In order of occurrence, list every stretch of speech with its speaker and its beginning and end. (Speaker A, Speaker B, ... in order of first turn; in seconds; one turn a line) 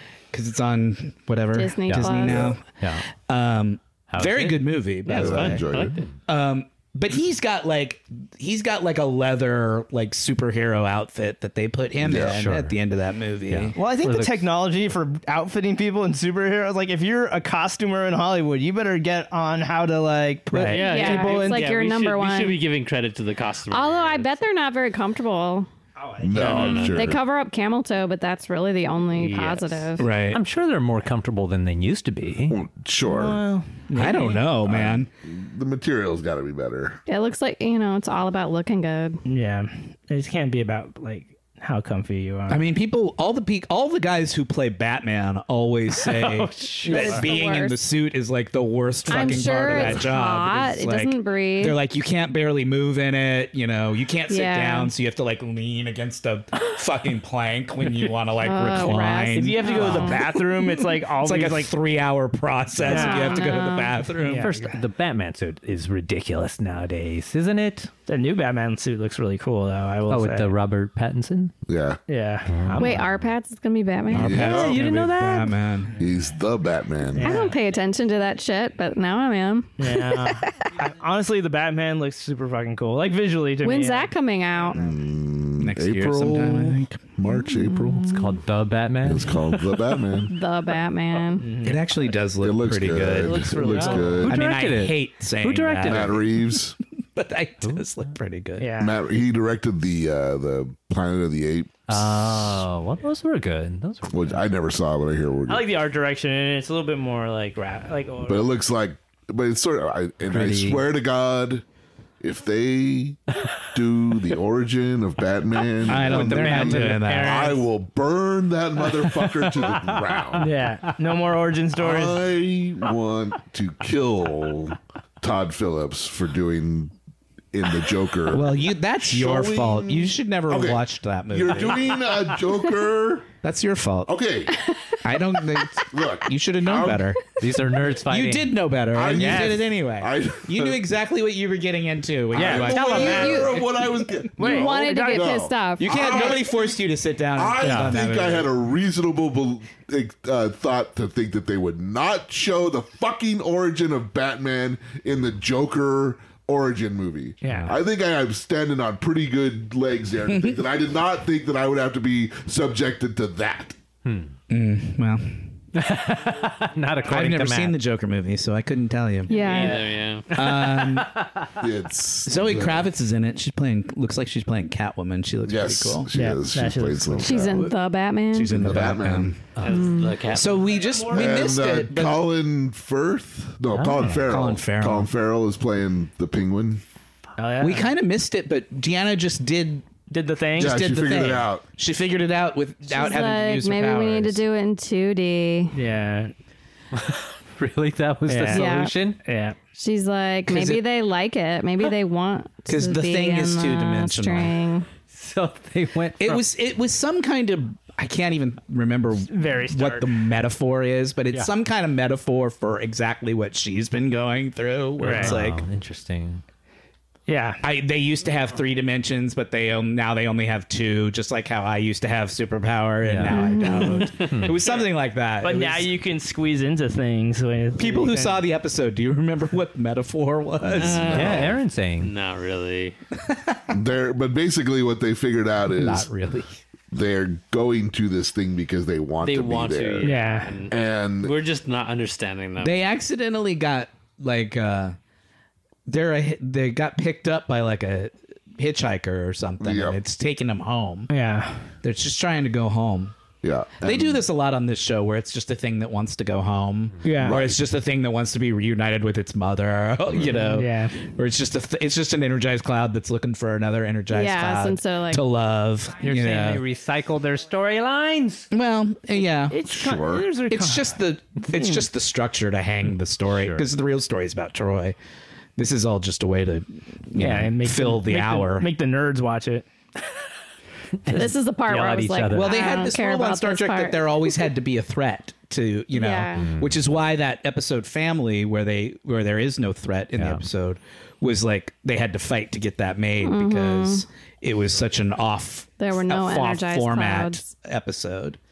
Speaker A: 0.3-5.6
Speaker B: 1.5-2.5
Speaker C: 2.2-2.6
Speaker D: 4.1-4.5
Speaker E: 5.1-6.1
Speaker C: 5.1-6.0
Speaker A: 6.3-13.8
Speaker C: 12.0-12.4
Speaker D: 12.2-12.7
Speaker D: 13.5-14.3
Speaker F: 13.7-21.8
Speaker E: 20.5-24.4
Speaker B: 20.7-22.6
Speaker B: 23.7-25.7
Speaker F: 26.0-27.1
Speaker C: 26.2-27.2
Speaker E: 26.4-27.1
Speaker B: 26.8-30.1
Speaker E: 29.2-29.7
Speaker A: 30.0-30.4
Speaker D: 30.3-32.6
Speaker C: 32.5-33.4
Speaker F: 33.0-34.5
Speaker A: 33.9-35.1
Speaker C: 34.6-37.0
Speaker B: 37.1-39.2
Speaker F: 39.2-42.6
Speaker A: 42.5-64.5
Speaker F: 46.1-47.3
Speaker B: 46.9-47.8
Speaker B: 49.1-51.8
Speaker F: 49.1-49.9
Speaker B: 54.3-54.9
Speaker B: 58.4-60.3
Speaker F: 59.3-61.8
Speaker F: 62.8-63.6
Speaker B: 62.9-63.9
Speaker F: 64.2-64.8
Speaker D: 64.5-67.9
Speaker F: 68.1-70.5
Speaker D: 70.1-71.5
Speaker C: 71.7-72.0
Speaker F: 72.1-73.1
Speaker D: 72.5-72.9
Speaker B: 72.8-74.5
Speaker A: 74.1-76.0
Speaker C: 74.1-74.9
Speaker D: 74.6-75.5
Speaker C: 76.0-77.4
Speaker F: 77.1-77.6
Speaker B: 77.2-80.5
Speaker F: 79.8-84.1
Speaker B: 83.6-84.8
Speaker C: 84.7-88.1
Speaker A: 85.6-87.0
Speaker B: 87.3-88.3
Speaker D: 88.0-89.3
Speaker C: 89.0-90.3
Speaker B: 90.3-91.5
Speaker F: 91.3-91.9
Speaker A: 91.6-96.3
Speaker C: 92.4-94.4
Speaker F: 93.2-94.2
Speaker D: 94.2-96.1
Speaker C: 95.8-96.8
Speaker A: 97.2-98.7
Speaker F: 98.6-99.0
Speaker C: 98.8-102.3
Speaker D: 101.9-104.3
Speaker C: 104.1-105.7
Speaker F: 105.5-108.5
Speaker C: 108.3-111.6
Speaker D: 110.4-110.8
Speaker C: 112.2-120.5
Speaker A: 115.9-117.6
Speaker D: 116.0-117.5
Speaker D: 118.9-119.5
Speaker F: 120.4-122.3
Speaker C: 121.8-126.9
Speaker C: 127.5-133.3
Speaker A: 128.3-132.1
Speaker A: 133.4-134.2
Speaker C: 134.1-134.6
Speaker A: 135.0-137.4
Speaker C: 135.7-137.1
Speaker D: 137.4-138.4
Speaker A: 138.1-143.7
Speaker C: 138.9-140.8
Speaker F: 139.1-139.7
Speaker C: 142.3-146.8
Speaker F: 142.4-143.5
Speaker B: 142.7-143.6
Speaker F: 144.3-145.5
Speaker B: 144.4-146.1
Speaker A: 145.8-148.5
Speaker C: 147.3-163.8
Speaker F: 147.6-147.9
Speaker F: 157.4-157.8
Speaker A: 160.3-160.6
Speaker A: 164.5-165.5
Speaker D: 165.9-167.7
Speaker A: 167.1-169.6
Speaker B: 169.3-170.0
Speaker E: 169.4-170.5
Speaker F: 169.4-169.8
Speaker A: 170.3-171.1
Speaker C: 171.6-172.9
Speaker A: 172.3-176.1
Speaker C: 175.5-177.7
Speaker F: 176.1-177.6
Speaker B: 177.2-178.8
Speaker A: 178.3-182.2
Speaker C: 178.5-179.3
Speaker E: 179.6-181.0
Speaker B: 179.6-180.2
Speaker C: 181.0-186.8
Speaker D: 183.7-184.3
Speaker A: 184.2-185.1
Speaker F: 187.4-187.9
Speaker A: 187.6-190.0
Speaker F: 190.1-190.8
Speaker C: 190.6-191.7
Speaker A: 190.6-194.4
Speaker B: 192.9-195.8
Speaker F: 195.7-196.3
Speaker D: 197.6-199.2
Speaker F: 198.3-198.7
Speaker B: 198.5-198.9
Speaker F: 199.2-199.6
Speaker B: 199.8-204.9
Speaker A: 200.5-200.8
Speaker A: 202.7-204.6
Speaker D: 205.1-206.4
Speaker A: 206.2-215.6
Speaker F: 209.2-210.2
Speaker F: 215.0-215.4
Speaker D: 215.1-216.4
Speaker F: 217.3-217.6
Speaker A: 217.6-225.9
Speaker D: 223.1-223.4
Speaker B: 223.2-224.1
Speaker D: 224.3-224.6
Speaker F: 224.5-224.8
Speaker F: 225.4-228.4
Speaker A: 227.8-231.6
Speaker E: 230.7-233.0
Speaker D: 231.1-232.1
Speaker A: 233.3-233.6
Speaker C: 233.7-236.1
Speaker A: 235.8-236.6
Speaker C: 236.9-241.4
Speaker E: 239.2-242.8
Speaker F: 240.0-240.6
Speaker A: 242.6-245.0
Speaker A: 245.9-251.1
Speaker C: 249.6-250.0
Speaker F: 251.1-251.7
Speaker A: 251.8-253.2
Speaker C: 253.4-254.2
Speaker A: 253.8-266.6
Speaker F: 257.0-257.4
Speaker C: 257.2-257.6
Speaker C: 260.1-260.4
Speaker F: 260.4-260.9
Speaker B: 264.1-265.2
Speaker D: 266.1-268.5
Speaker A: 268.5-269.6
Speaker F: 269.5-271.9
Speaker C: 269.7-270.3
Speaker A: 270.5-275.0
Speaker A: 275.6-278.7
Speaker F: 277.2-279.7
Speaker B: 281.1-284.5
Speaker D: 281.7-282.6
Speaker A: 282.3-298.4
Speaker B: 285.9-286.5
Speaker D: 286.4-286.8
Speaker B: 293.2-294.0
Speaker B: 295.8-297.5